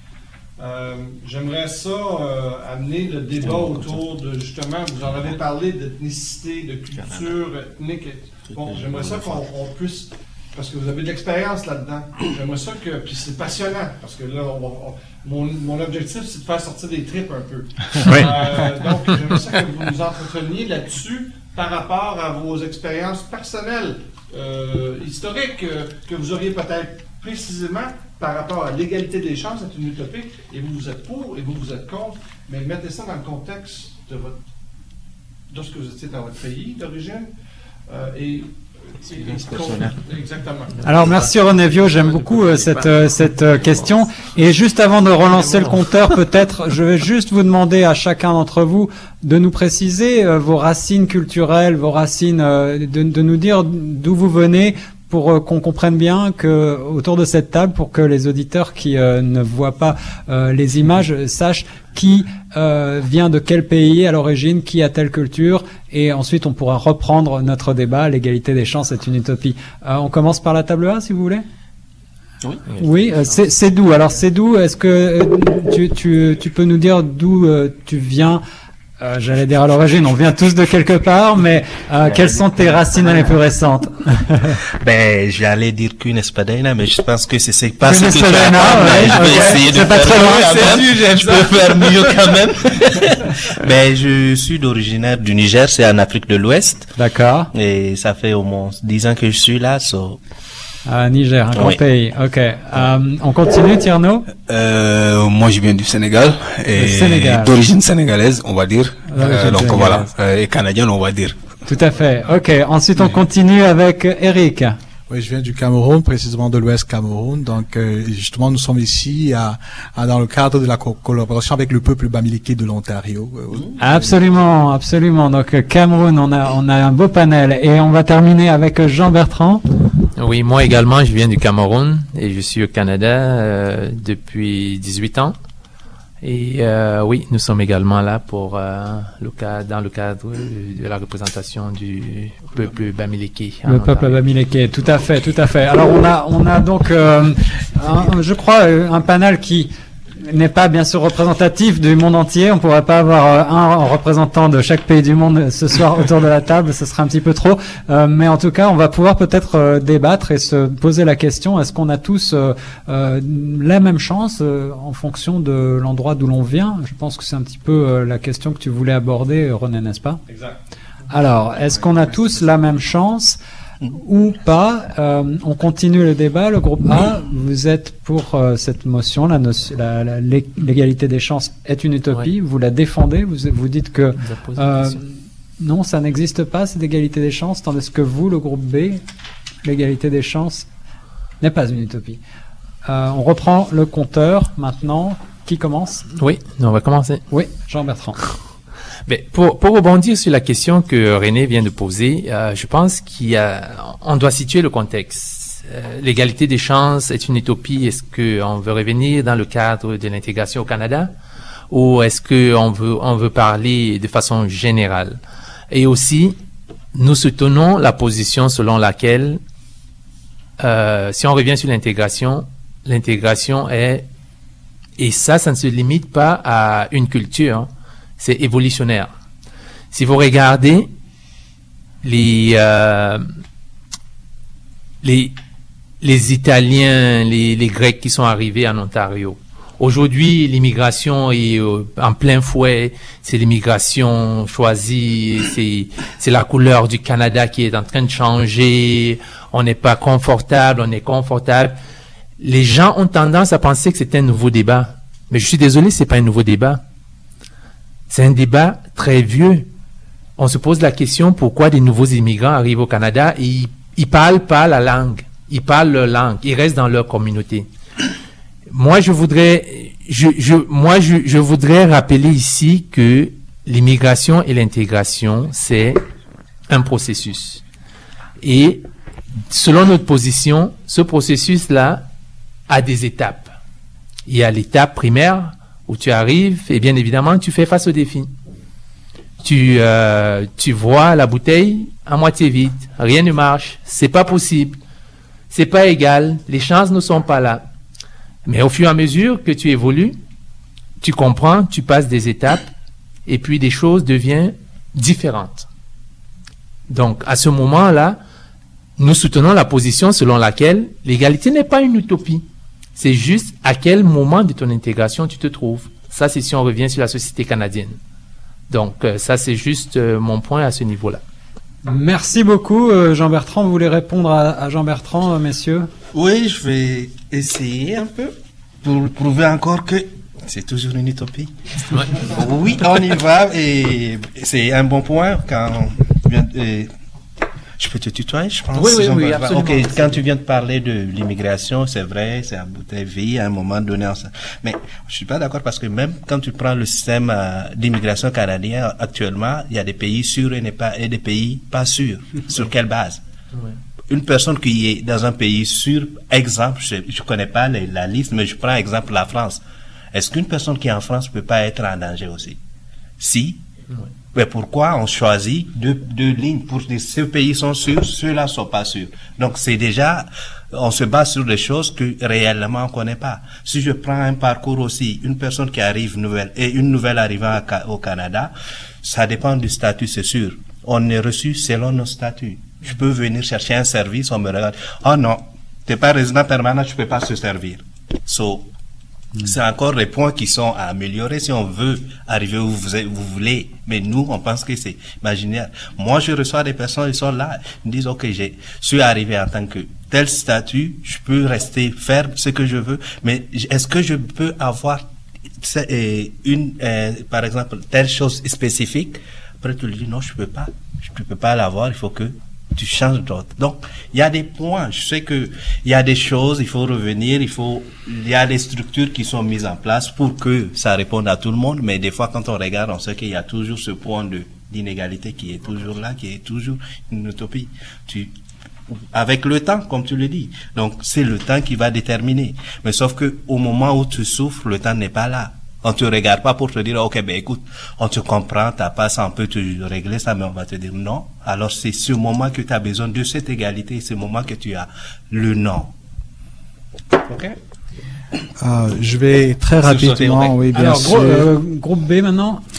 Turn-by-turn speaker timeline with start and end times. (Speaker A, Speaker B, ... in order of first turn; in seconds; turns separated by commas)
Speaker A: 0.6-34.4, Speaker B: 18.0-18.3, Speaker A: 35.5-37.3, Speaker A: 37.9-40.8, Speaker C: 39.2-40.0, Speaker D: 40.8-71.4, Speaker D: 72.8-78.4, Speaker D: 79.0-84.6, Speaker C: 84.8-97.0, Speaker D: 87.8-90.9, Speaker D: 97.0-97.5, Speaker C: 97.5-100.2, Speaker D: 100.9-104.3, Speaker E: 104.5-111.4, Speaker D: 106.8-107.5, Speaker D: 109.1-110.1, Speaker D: 111.7-114.8, Speaker F: 115.1-123.8, Speaker D: 123.8-129.6, Speaker B: 130.2-135.4, Speaker B: 136.2-144.2, Speaker D: 143.7-149.7, Speaker D: 150.2-170.2, Speaker A: 170.3-170.6, Speaker D: 171.1-173.4, Speaker D: 173.9-189.0, Speaker B: 184.2-185.0, Speaker D: 189.6-190.7, Speaker D: 191.4-192.2, Speaker D: 192.9-196.0, Speaker B: 196.2-197.2, Speaker D: 197.3-198.2, Speaker B: 199.1-211.1, Speaker B: 211.7-216.4, Speaker B: 216.9-219.4, Speaker B: 220.6-224.1, Speaker B: 225.0-229.1, Speaker B: 229.9-230.9, Speaker B: 232.0-233.3, Speaker B: 235.0-235.3, Speaker B: 236.0-251.8, Speaker B: 252.4-256.8, Speaker B: 258.1-259.7, Speaker B: 260.4-267.7, Speaker B: 268.7-276.0, Speaker B: 276.7-277.6, Speaker B: 278.4-278.9, Speaker B: 279.5-282.1, Speaker B: 282.7-283.5, Speaker B: 284.3-288.3, Speaker B: 289.4-294.8, Speaker B: 295.5-297.6, Speaker B: 298.4-300.2, Speaker B: 301.0-302.7, Speaker B: 303.3-305.7, Speaker B: 306.9-308.2, Speaker B: 309.0-312.4, Speaker B: 313.0-318.0, Speaker B: 318.7-321.2, Speaker D: 321.9-325.9, Speaker C: 326.1-331.5, Speaker C: 332.2-336.9, Speaker C: 337.8-353.2, Speaker B: 338.8-340.2, Speaker C: 354.1-359.6, Speaker C: 360.1-362.6, Speaker C: 363.2-363.6, Speaker C: 364.3-378.5, Speaker C: 379.0-388.7, Speaker C: 389.4-405.1, Speaker C: 405.6-428.3, Speaker C: 428.9-445.9, Speaker C: 447.3-447.6, Speaker F: 448.6-451.5, Speaker C: 449.8-450.6, Speaker D: 450.7-452.6